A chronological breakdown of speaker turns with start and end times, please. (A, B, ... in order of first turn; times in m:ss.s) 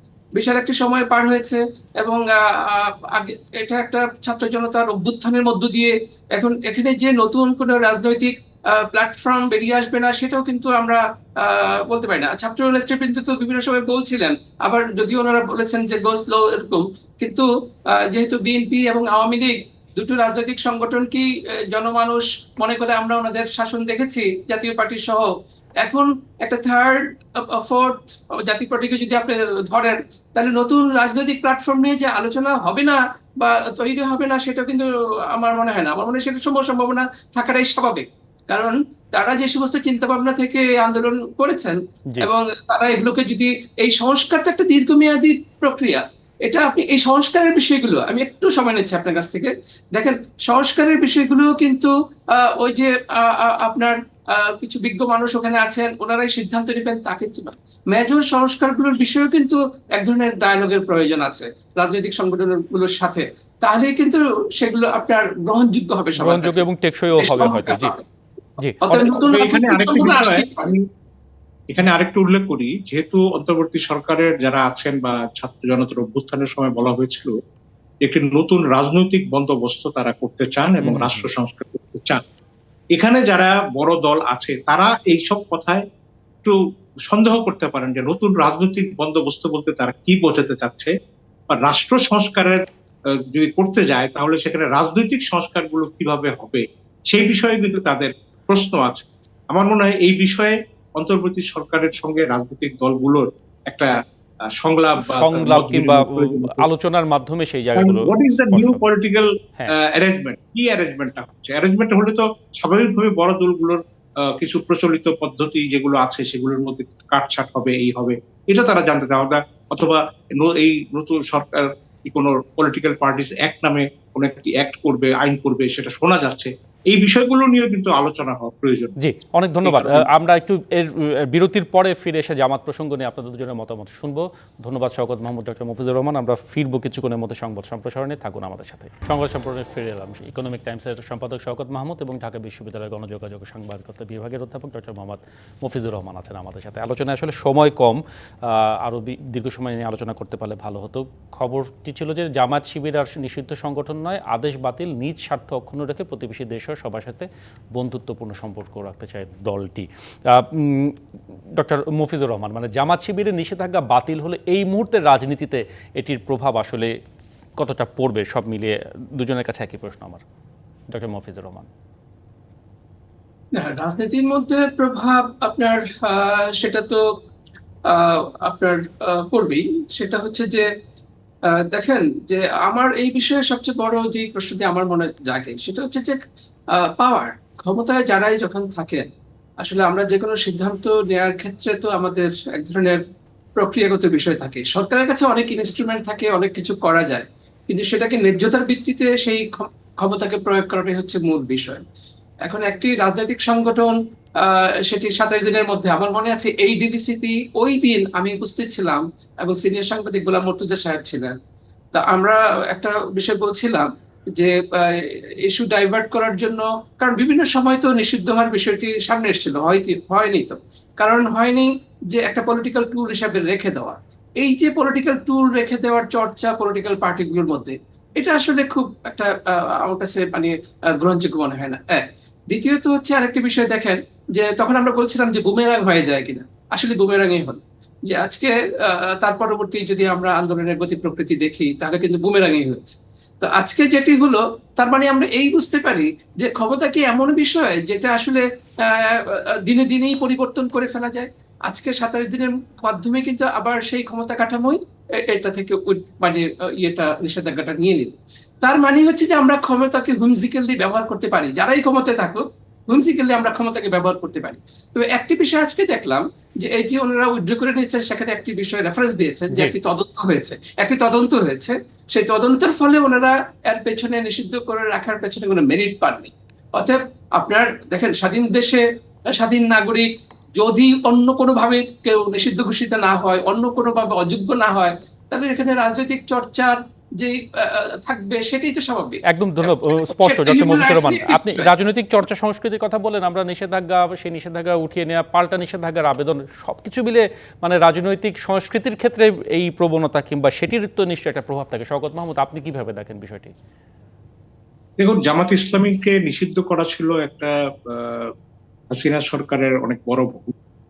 0:00.4-0:25.3 A
0:25.8-1:06.6 A
1:06.2-1:07.9 B
1:07.2-1:08.0 A
1:08.8-1:10.7 A
1:08.9-1:10.8 C
1:11.7-1:17.3 C
1:18.0-1:22.2 C
1:20.8-1:21.2 B
1:22.9-1:25.8 C
1:27.1-1:30.9 C
1:31.5-1:43.9 C
1:44.6-1:46.7 C
1:45.0-1:48.8 B
1:47.8-2:08.9 C
2:09.0-2:41.0 B
2:09.6-2:10.1 C
2:41.5-2:46.9 B
2:47.6-2:50.2 B
2:50.9-2:51.7 B
2:53.5-2:57.0 A
2:57.9-3:00.6 A
3:01.5-3:06.2 A
3:06.7-3:09.1 A
3:09.6-3:13.0 A
3:13.6-3:21.8 A
3:22.4-3:31.3 A
3:31.9-4:51.7 A
4:49.2-5:03.5 B
5:05.0-5:08.3 C
5:08.9-5:10.5 C